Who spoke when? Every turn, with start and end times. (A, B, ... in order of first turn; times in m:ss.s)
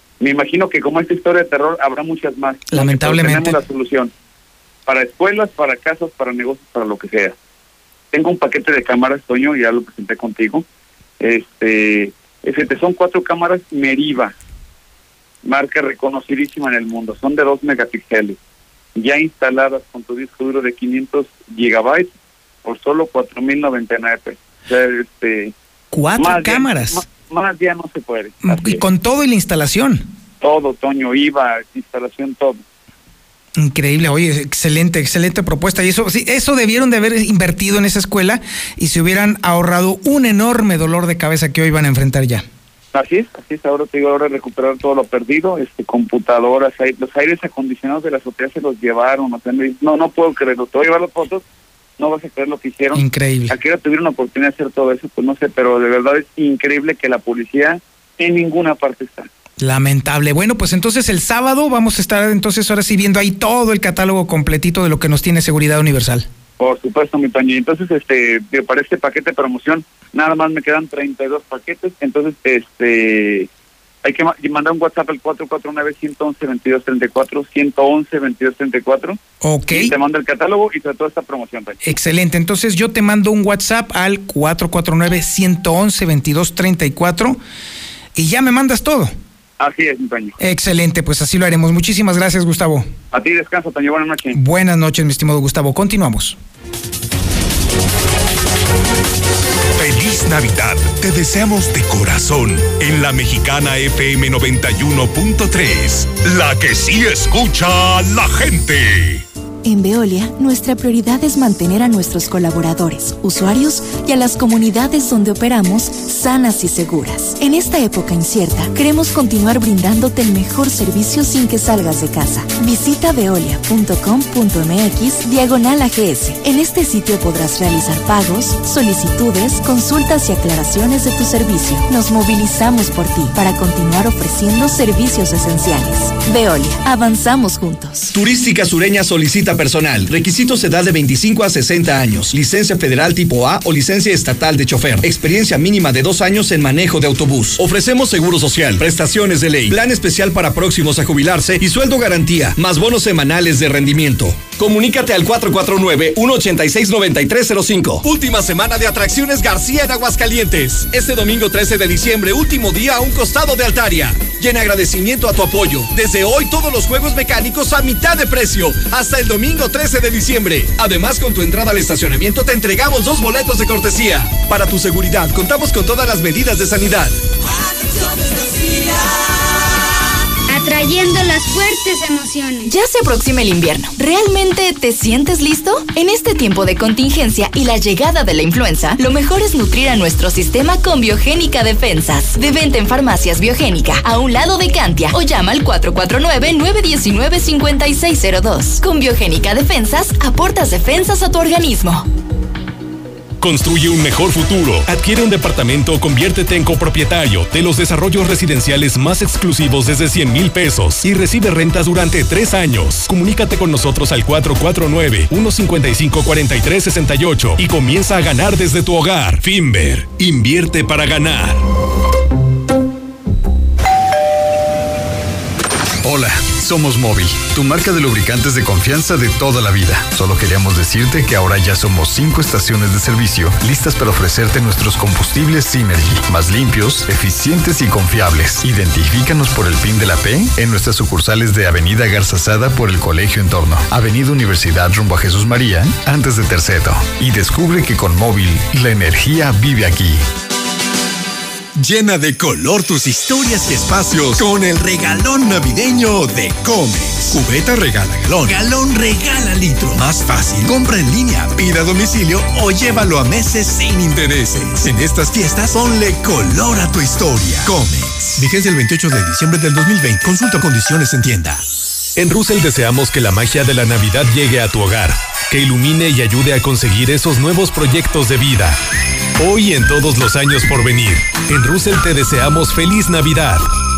0:00.2-0:04.1 A
0:02.7-0:03.6 B
0:04.9-0:07.4 A
0:08.1-0:10.6 A
0:11.2-0:14.3 A
0:15.4-0:18.4 A
0:19.0-0:22.1 A
0:22.6-0:25.5 A
0:25.9-0:27.0 B
0:26.2-0:28.8 A
0:28.4-0:30.1 B
0:30.4-0:32.6 A
0:33.6-0:42.4 B
0:42.9-0:51.4 A
0:52.0-0:59.3 A
0:52.9-0:53.6 B
0:59.6-1:06.3 B
1:06.6-1:13.5 A
1:14.0-1:19.2 A
1:19.4-1:19.9 B
1:19.7-1:21.8 A
1:21.8-1:27.4 B
1:28.2-1:29.1 B
1:29.6-1:30.4 A
1:30.4-1:32.9 B
1:33.1-1:34.4 A
1:34.3-1:36.4 B
1:39.8-1:49.2 C
1:49.7-2:18.1 D
2:18.1-2:57.2 E
3:00.5-3:02.7 F
3:02.7-3:22.0 G
3:23.4-3:41.6 H
3:46.0-4:10.2 I
4:11.8-4:31.6 J
4:32.2-4:38.8 H
4:39.4-4:43.7 H